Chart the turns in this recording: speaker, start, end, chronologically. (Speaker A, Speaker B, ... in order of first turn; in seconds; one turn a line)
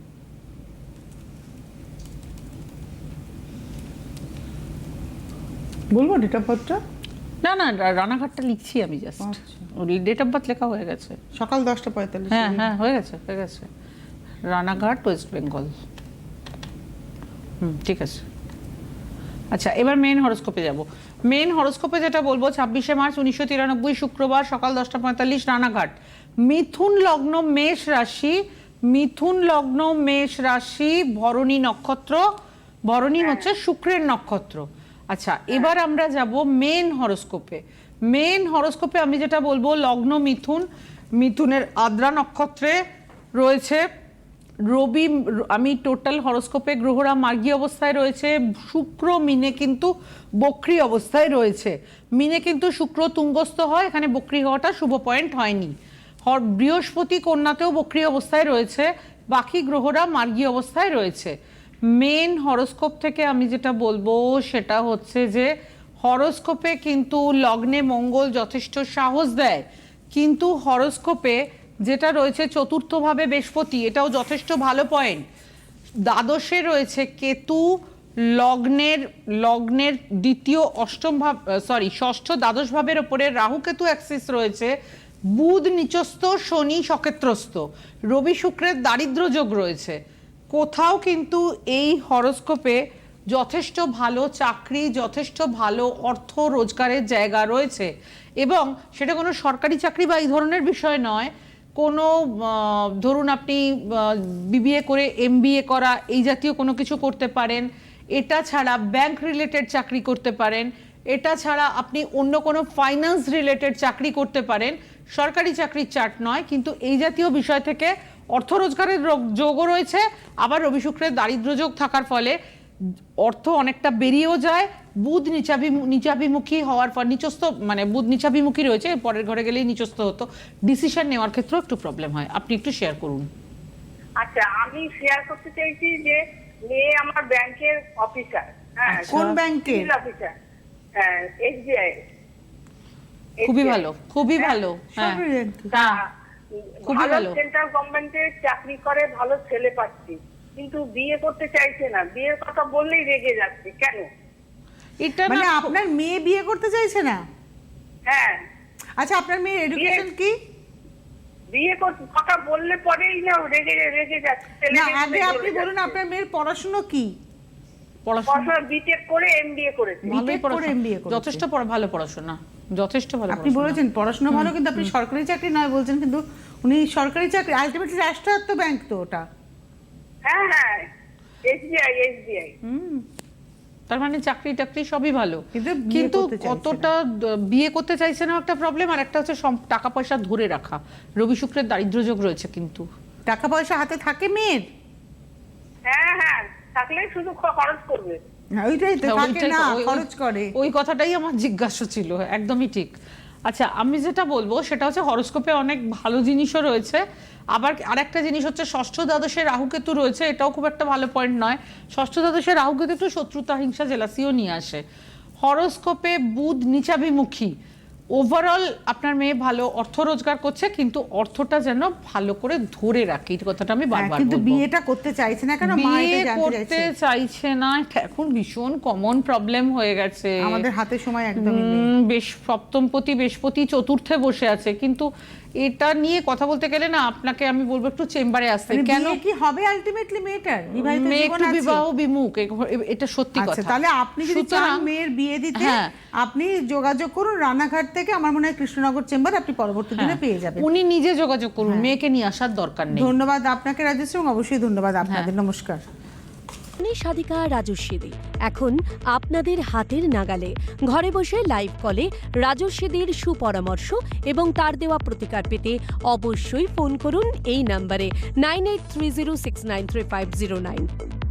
Speaker A: 5.9-6.8
Speaker B: 7.4-11.2
Speaker A: 9.2-9.6
Speaker A: 11.3-12.7
Speaker B: 12.3-13.7
Speaker B: 14.5-15.7
Speaker B: 17.6-18.2
Speaker B: 19.5-32.3
Speaker B: 32.9-42.8
Speaker C: 33.2-33.5
Speaker B: 43.4-43.9
Speaker B: 44.7-55.7
Speaker B: 56.2-75.2
Speaker B: 76.0-84.7
Speaker B: 85.3-122.4
Speaker B: 123.2-133.3
Speaker C: 134.2-140.3
Speaker B: 138.9-139.4
Speaker A: 139.1-139.9
Speaker C: 140.9-142.0
Speaker C: 143.4-143.8
Speaker B: 143.4-146.0
Speaker A: 144.9-145.7
Speaker C: 145.7-146.0
Speaker B: 146.8-147.4
Speaker C: 146.8-154.1
Speaker B: 155.0-155.7
Speaker A: 155.3-157.2
Speaker C: 158.1-158.4
Speaker A: 159.0-160.3
Speaker C: 159.8-160.0
Speaker C: 161.5-165.9
Speaker A: 164.7-167.1
Speaker B: 168.1-168.5
Speaker C: 168.3-170.1
Speaker A: 170.1-171.4
Speaker B: 170.1-173.8
Speaker A: 173.3-179.2
Speaker B: 174.3-174.9
Speaker C: 180.2-180.9
Speaker C: 181.5-182.5
Speaker A: 182.6-183.0
Speaker B: 183.9-192.9
Speaker A: 185.5-186.9
Speaker A: 193.3-194.7
Speaker C: 195.8-198.2
Speaker A: 198.6-200.5
Speaker B: 199.0-202.9
Speaker B: 203.4-214.8
Speaker B: 215.4-217.6
Speaker B: 218.1-224.6
Speaker A: 223.9-226.9
Speaker B: 225.6-230.6
Speaker A: 230.4-231.9
Speaker B: 231.4-235.1
Speaker B: 235.6-239.2
Speaker A: 238.7-241.8
Speaker B: 240.8-244.9
Speaker A: 243.4-250.7
Speaker B: 245.6-245.9
Speaker B: 249.9-253.1
Speaker A: 251.6-251.9
Speaker A: 252.9-255.8
Speaker D: 256.8-270.9